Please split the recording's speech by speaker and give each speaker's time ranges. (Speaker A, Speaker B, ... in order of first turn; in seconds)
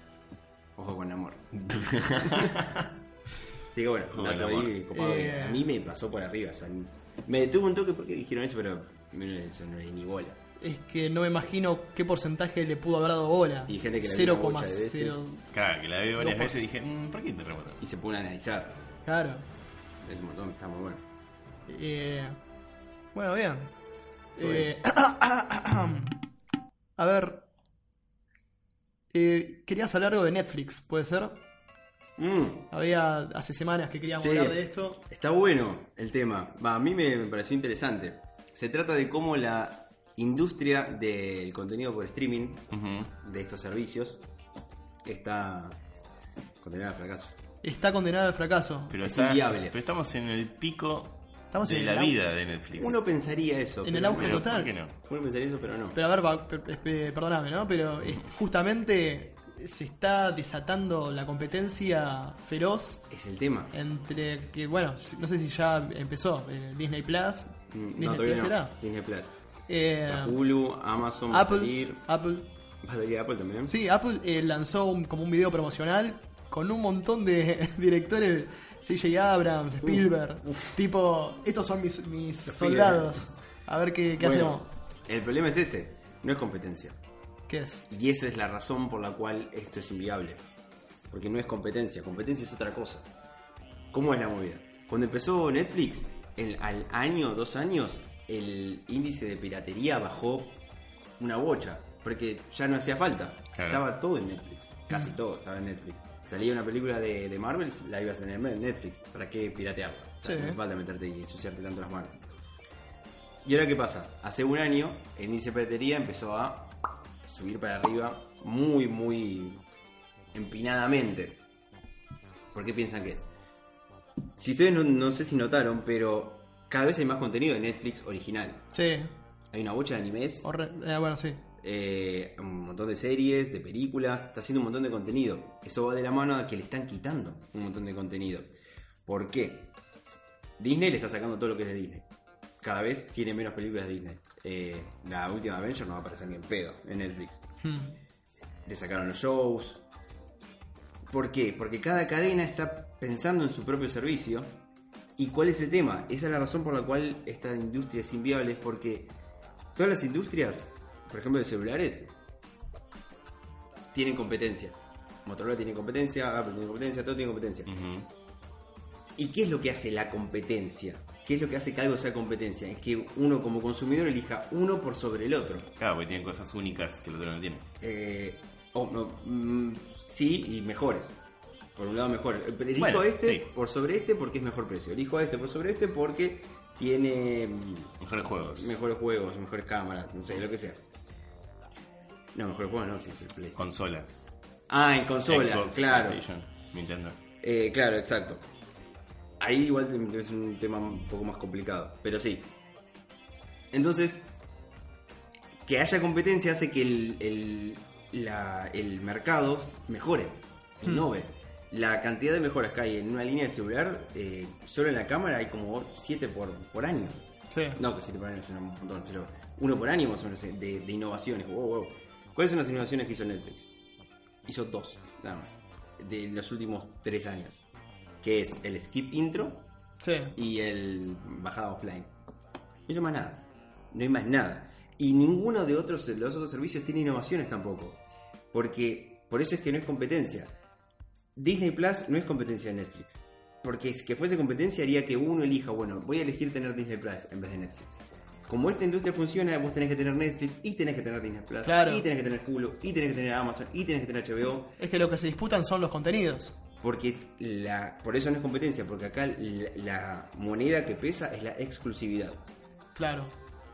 Speaker A: 0.8-1.5, 2.2-2.5, 3.7-10.4, 13.7-15.4, 17.8-18.8, 20.0-21.0, 24.4-24.7, 32.2-32.7, 34.2-44.2, 45.0-45.8, 46.6-47.4, 49.0-49.8, 52.8-56.0, 63.1-63.7, 67.7-69.3, 70.1-72.1, 72.8-73.7, 79.8-80.8, 82.5-83.2, 84.2-87.0, 87.9-90.4, 91.1-93.1, 93.9-100.6, 101.2-112.2, 113.4-119.6, 120.3-121.4, 122.5-123.3, 124.4-128.7, 129.5-130.5, 131.6-138.5, 139.1-142.1, 142.6-147.4, 148.7-149.8, 151.1-154.6, 155.2-159.1, 159.7-162.1, 163.9-167.7, 169.2-175.7, 177.8-181.2, 181.8-187.9, 188.4-190.8, 192.3-193.7, 194.7-196.2, 197.4-198.5, 199.4-202.5, 203.7-204.3, 205.7-217.2, 217.7-223.7, 224.4-227.7, 228.2-229.7, 230.3-232.1, 232.9-238.0, 238.5-240.5, 241.3-254.8, 256.8-262.4
Speaker B: 1.5-2.9, 4.1-4.7, 15.5-17.8, 42.7-43.1, 48.9-53.0, 54.1-54.9, 103.5-103.8, 167.7-168.1, 175.8-177.6, 182.8-183.4, 188.0-188.7, 193.6-194.3, 195.3-197.2
Speaker C: 4.9-5.7, 10.6-15.4, 16.2-16.6, 19.0-19.5, 21.7-22.4, 23.1-23.7, 24.3-26.2, 27.0-27.4, 29.1-31.4, 32.7-35.0, 47.6-49.0, 51.5-52.1, 53.8-54.7, 55.9-63.0, 63.7-68.7, 69.7-70.4, 71.3-72.5, 73.7-84.7, 87.5-87.8, 110.2-110.6, 128.7-129.1, 130.4-131.4, 147.6-148.0, 217.5-217.8, 230.0-230.4, 251.6-252.0, 254.8-256.5, 262.9-263.4